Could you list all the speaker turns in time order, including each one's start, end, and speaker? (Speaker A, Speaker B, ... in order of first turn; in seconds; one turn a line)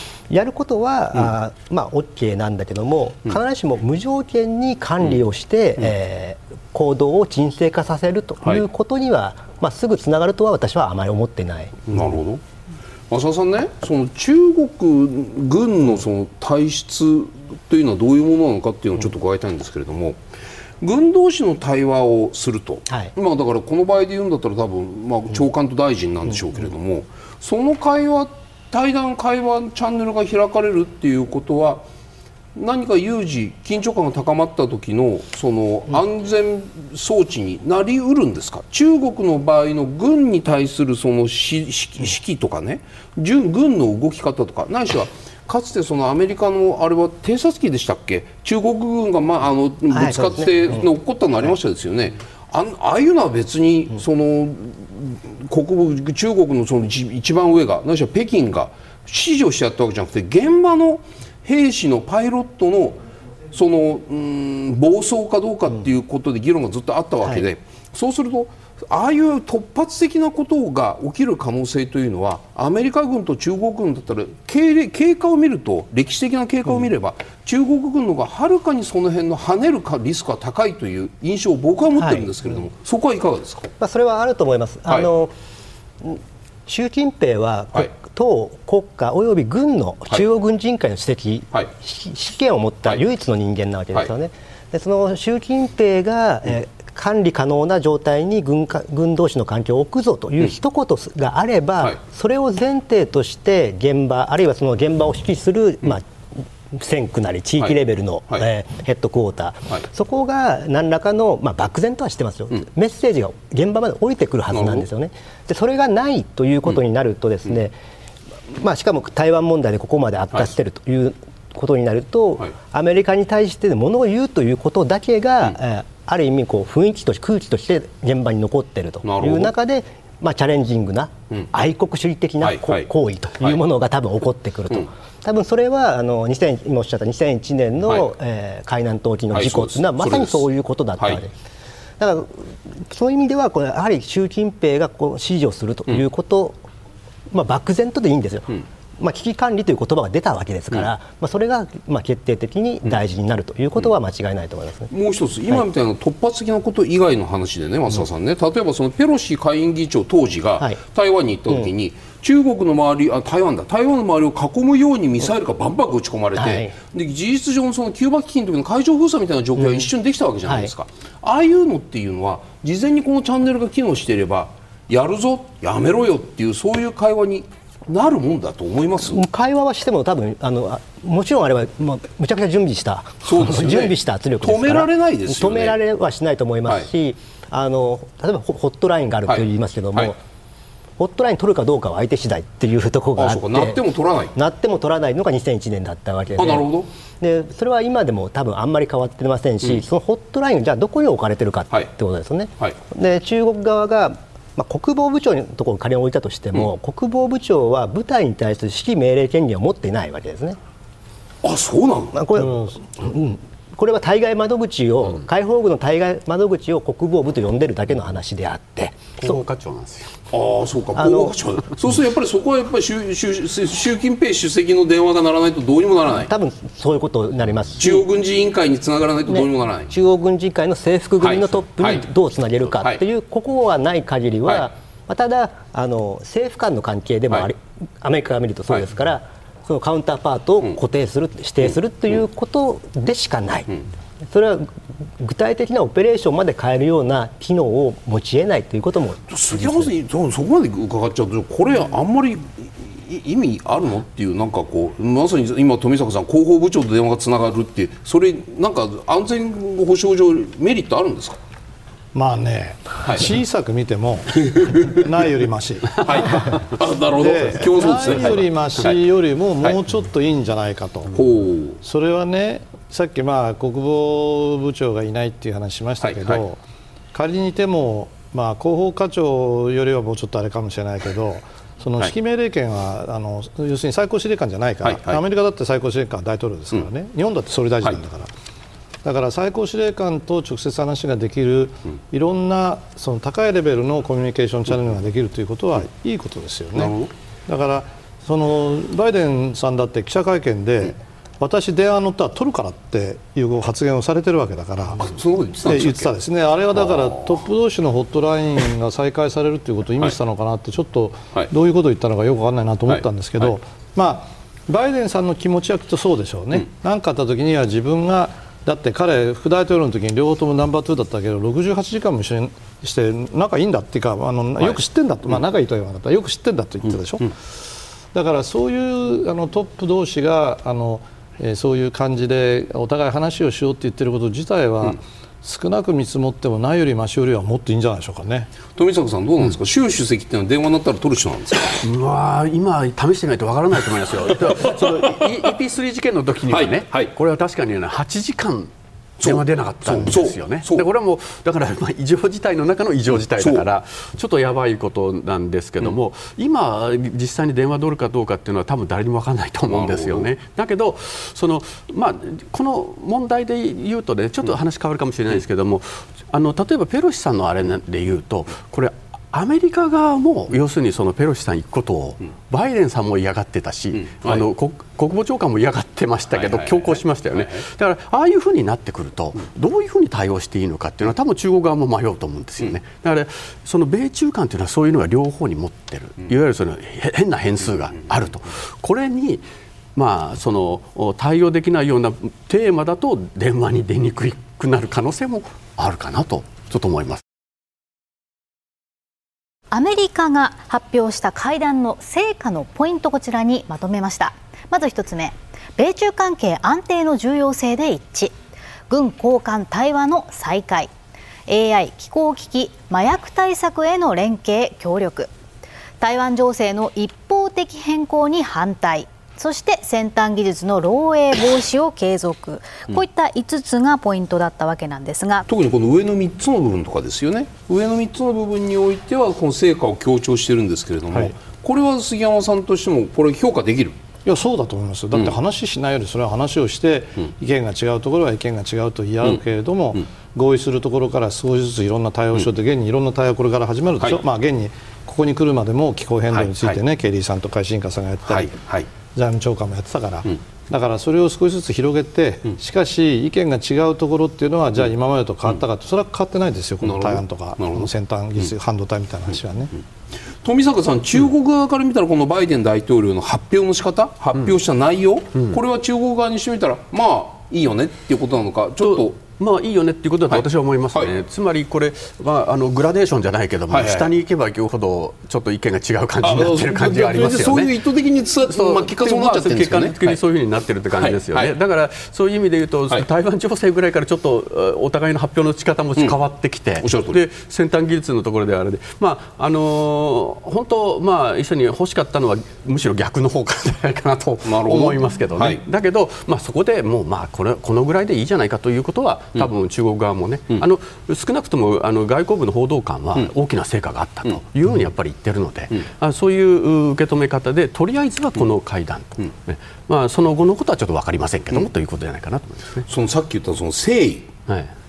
Speaker A: 0.3-12.0
Speaker B: 11.9-12.4
Speaker B: 13.1-20.2
Speaker B: 20.8-31.8
Speaker B: 32.5-83.7
Speaker A: 49.9-50.8
Speaker A: 82.0-82.3
Speaker A: 83.8-85.3
Speaker A: 86.0-106.0
Speaker A: 106.7-117.8
Speaker B: 114.5-114.8
Speaker A: 118.5-141.3
Speaker B: 129.0-129.5
Speaker B: 132.4-132.8
Speaker B: 139.3-140.4
Speaker A: 142.0-146.6
Speaker A: 147.3-154.9
Speaker B: 154.9-179.2
Speaker A: 166.4-166.7
Speaker A: 170.4-170.7
Speaker A: 179.1-190.2
Speaker B: 183.2-185.8
Speaker A: 191.0-193.8
Speaker B: 193.2-194.3
Speaker A: 194.3-196.7
Speaker B: 196.3-196.9
Speaker A: 197.2-210.6
Speaker B: 211.4-212.2
Speaker A: 212.1-219.4
Speaker C: 219.2-220.1
Speaker B: 220.3-226.3
Speaker A: 221.0-221.3
Speaker A: 226.2-228.1
Speaker B: 227.8-229.9
Speaker A: 229.3-243.8
Speaker B: 231.2-232.0
Speaker A: 244.3-249.8
Speaker B: 249.3-261.4
Speaker D: 262.1-266.4
Speaker B: 264.4-265.0
Speaker B: 266.0-268.9
Speaker D: 267.2-271.2
Speaker B: 271.1-271.8
Speaker D: 271.8-276.6
Speaker B: 276.1-276.4
Speaker D: 277.1-288.3
Speaker B: 284.8-285.2
Speaker D: 289.0-296.9
Speaker B: 296.8-297.1
Speaker D: 297.5-305.1
Speaker B: 305.0-306.1
Speaker D: 305.6-327.3
Speaker D: 328.1-338.5
Speaker B: 338.7-341.8
Speaker C: 341.8-397.2
Speaker B: 346.5-347.1
Speaker B: 349.2-350.8
Speaker B: 359.7-360.3
Speaker B: 374.1-374.4
Speaker B: 376.5-376.9
Speaker E: 399.7-408.3
Speaker E: 408.9-410.9
Speaker E: 411.5-415.3
Speaker E: 416.0-425.4
Speaker B: 425.5-434.0
Speaker D: 434.2-448.5
Speaker B: 446.3-446.7
Speaker B: 448.3-448.9
Speaker D: 449.1-459.7
Speaker B: 456.8-457.8
Speaker B: 460.4-469.2
Speaker C: 468.8-477.7
Speaker B: 470.3-471.1
Speaker B: 473.7-474.1
Speaker B: 476.2-480.1
Speaker C: 478.5-512.9
Speaker B: 481.0-481.5
Speaker B: 486.8-487.2
Speaker B: 494.4-495.6
Speaker B: 512.9-514.3